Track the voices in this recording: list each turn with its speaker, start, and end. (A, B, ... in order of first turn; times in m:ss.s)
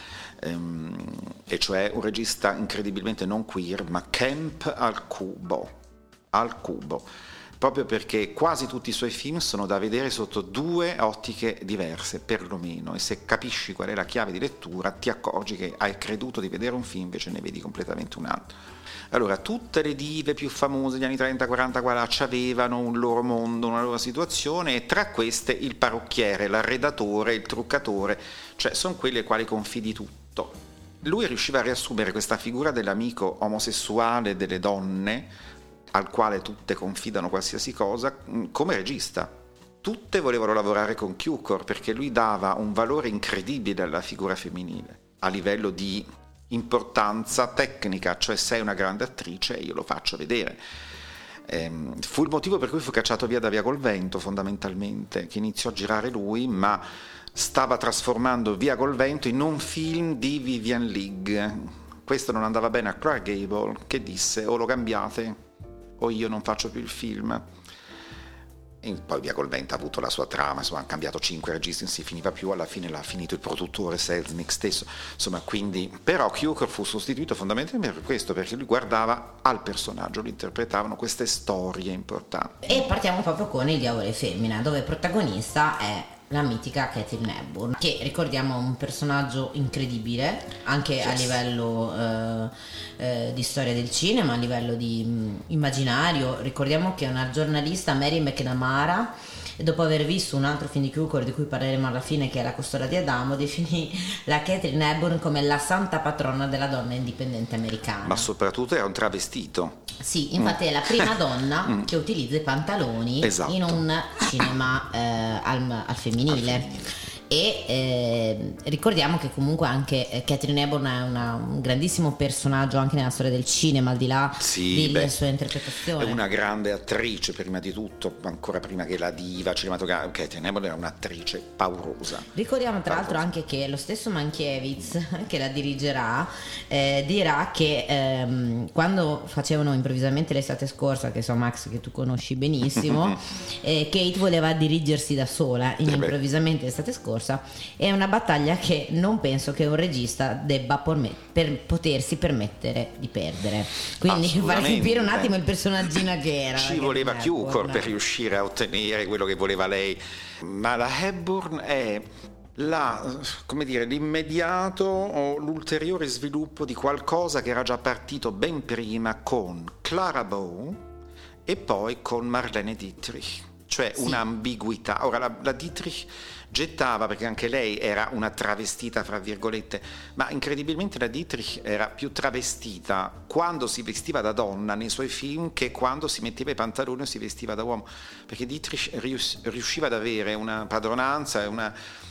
0:00.4-0:05.7 A
0:06.3-0:07.1 A
0:07.6-0:18.5 A
0:19.1-0:35.3 A
0:35.9-0:50.6 A
0:51.5-1:05.4 A
1:06.0-1:07.4 A
1:08.8-1:22.7 A
1:22.6-1:48.3 B
1:31.0-1:31.3 A
1:48.0-1:51.0 A
1:50.0-1:56.7 B
1:53.2-1:53.8 A
1:56.3-1:56.9 A
1:57.3-2:06.2 B
2:04.4-2:05.1 A
2:05.9-2:12.3 A
2:12.3-2:37.9 B
2:12.9-2:13.2 A
2:22.8-2:23.1 A
2:25.8-2:26.1 A
2:34.0-2:35.4 A
2:36.6-2:50.8 A
2:51.4-3:11.8 A